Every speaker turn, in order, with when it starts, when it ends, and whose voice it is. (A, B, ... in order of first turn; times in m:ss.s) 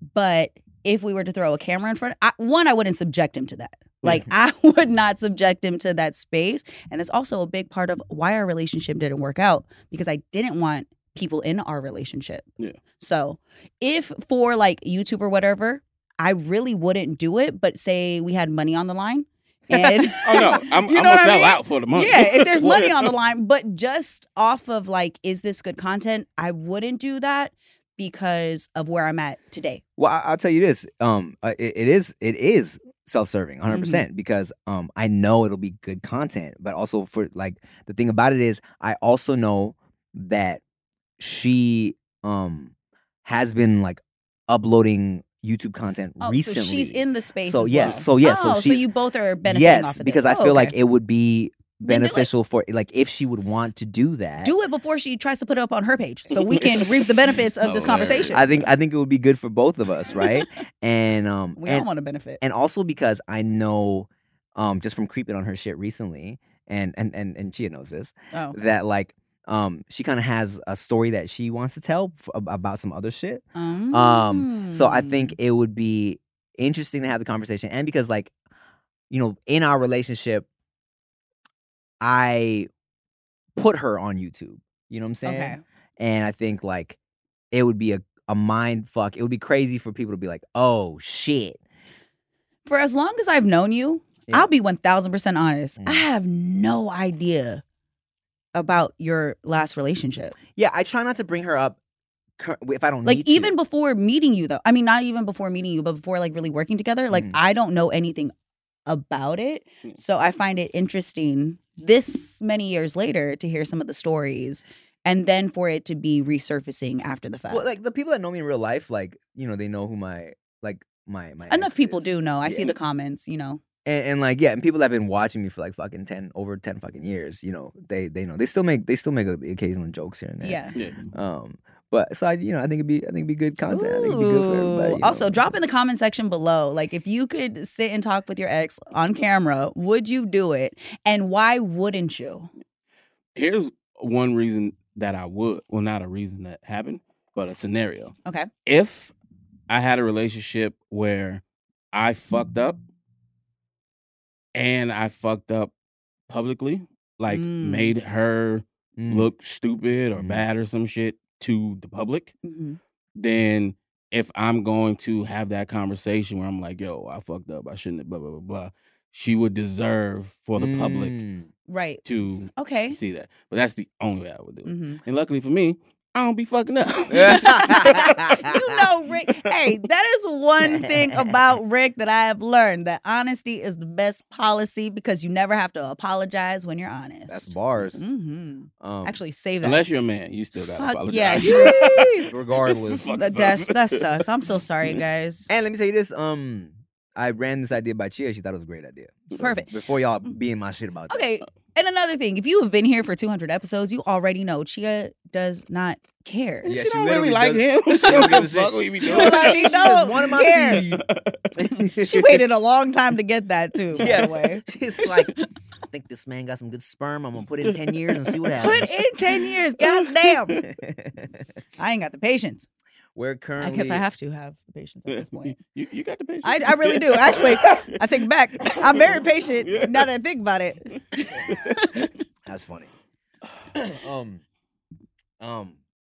0:00.1-0:12.5 A
0:13.0-0:29.8 A
0:20.2-0:23.1 B
0:30.0-0:40.6 C
0:33.7-0:34.0 A
0:41.2-0:42.7 C
0:43.2-0:48.9 C
0:46.2-0:50.7 A
0:49.4-0:54.5 C
0:51.8-0:52.3 A
0:54.4-0:58.5 A
0:56.4-0:58.6 B
0:58.3-1:01.9 C
1:00.1-1:00.4 A
1:01.6-1:02.4 A
1:02.4-1:18.3 C
1:08.3-1:08.6 A
1:13.6-1:15.4 A
1:19.1-1:20.5 C
1:22.0-1:22.7 C
1:23.6-1:27.0 C
1:25.2-1:25.6 A
1:27.5-1:31.6 C
1:32.7-1:37.6 A
1:35.8-1:36.1 C
1:38.6-1:40.4 A
1:40.6-1:41.8 C
1:42.4-1:43.5 C
1:43.0-1:48.3 A
1:47.1-1:47.4 C
1:48.9-1:57.7 A
1:57.5-2:02.7 C
2:01.5-2:03.6 A
2:03.8-2:10.6 C
2:10.4-2:10.8 A
2:10.8-2:11.0 B
2:11.1-2:15.4 C
2:13.7-2:22.5 A
2:23.4-2:28.2 B
2:28.7-2:29.1 B
2:29.7-2:32.8 B
2:34.5-2:35.7 B
2:36.3-2:42.3 B
2:37.3-2:38.0 A
2:39.0-2:39.3 C
2:40.2-2:40.4 C
2:42.4-2:42.8 A
2:43.2-2:51.2 B
2:50.6-2:51.5 C
2:51.7-2:52.0 A
2:52.0-2:58.4 B
2:52.6-2:53.0 A
2:54.7-2:55.0 A
2:57.1-2:58.6 C
2:57.2-3:09.8 A
3:00.6-3:01.4 C
3:07.3-3:08.0 C
3:08.8-3:09.2 C
3:09.6-3:14.3 B
3:10.7-3:12.1 A
3:11.4-3:13.1 C
3:13.1-3:15.5 A
3:15.5-3:21.2 C
3:19.4-3:19.7 A
3:21.1-3:26.7 A
3:26.6-3:29.9 B
3:26.7-3:31.0 C
3:28.0-3:28.4 A
3:29.0-3:30.8 A
3:31.0-3:31.5 B
3:31.6-3:32.4 C
3:31.9-3:35.4 A
3:34.0-3:35.3 C
3:35.9-3:39.0 C
3:37.7-3:38.5 B
3:38.6-3:40.6 A
3:39.4-3:40.6 B
3:40.6-3:41.3 C
3:41.8-3:42.7 A
3:43.2-3:44.0 C
3:43.6-3:45.6 A
3:45.1-3:48.0 B
3:46.4-3:52.1 A
3:48.6-3:50.1 B
3:51.3-3:52.1 B
3:52.5-3:52.9 C
3:53.7-3:54.4 C
3:55.4-3:55.8 C